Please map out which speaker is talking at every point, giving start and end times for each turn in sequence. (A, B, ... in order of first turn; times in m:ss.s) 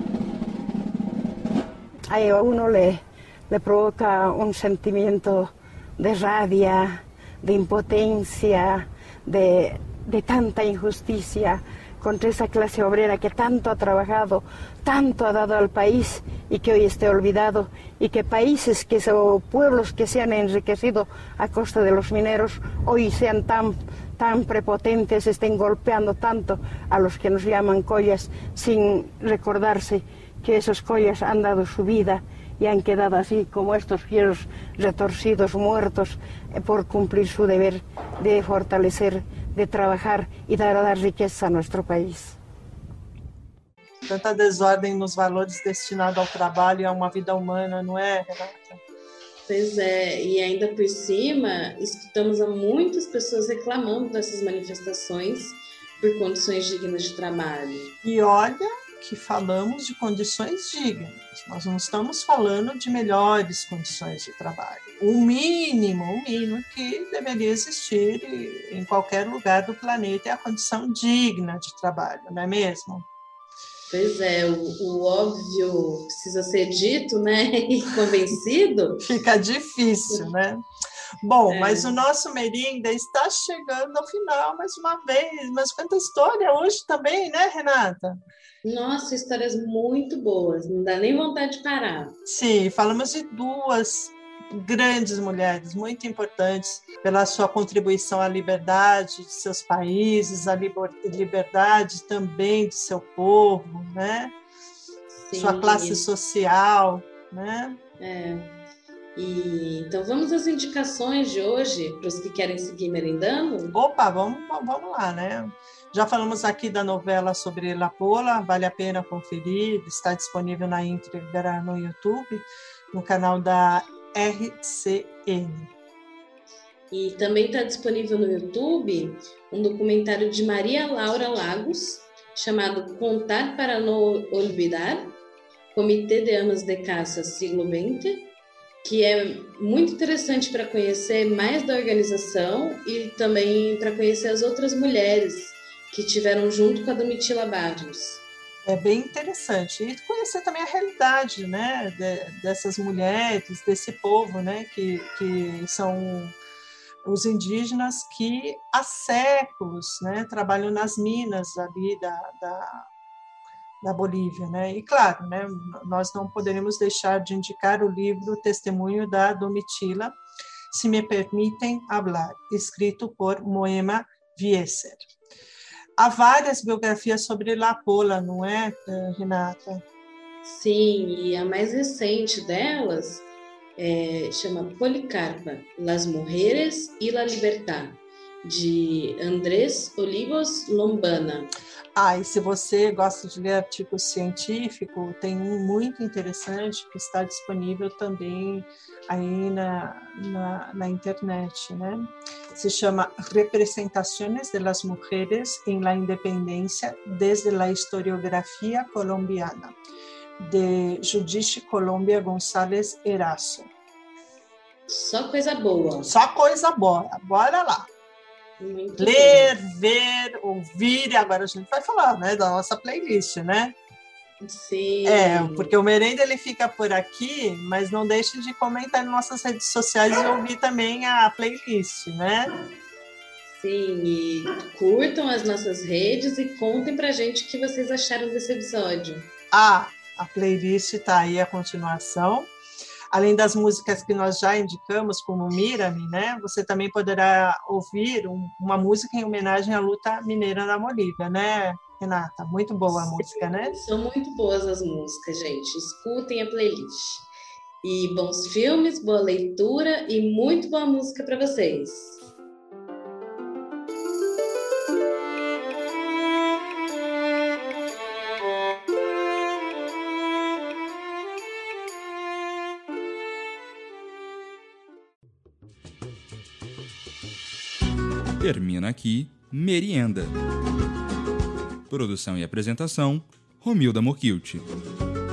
0:02.1-0:42.4 A
0:44.1-0:48.8 B
0:49.5-0:57.9 C
0:58.0-1:13.1 B
1:13.9-1:19.1 C
1:19.0-1:20.6 B
1:21.2-1:28.2 B
1:21.5-1:22.0 C
1:28.6-1:32.2 C
1:32.3-1:44.3 B
1:45.2-1:46.1 C
1:45.3-1:47.8 B
1:48.0-1:48.5 C
1:49.2-1:53.8 C
1:53.7-2:05.7 B
2:06.9-2:15.2 C
2:15.7-2:18.3 C
2:18.8-2:28.2 C
2:28.6-2:36.4 B
2:37.0-2:42.8 B
2:43.8-2:50.2 B
2:50.7-2:55.1 B
2:56.0-2:59.8 B
3:00.4-3:03.3 C
3:03.8-3:11.5 C
3:12.0-3:29.8 B
3:30.4-3:33.7 B
3:34.9-3:36.1 C
3:36.1-3:37.9 B
3:38.6-3:39.5 C
3:39.0-3:43.8 B
3:44.4-3:45.8 C
3:45.1-3:52.5 B
3:53.5-3:59.3 C
3:59.5-4:02.5 B
4:03.1-4:13.8 B
4:12.9-4:17.3 C
4:17.8-4:22.2 C
4:38.4-4:40.3 D
4:41.9-4:44.6 D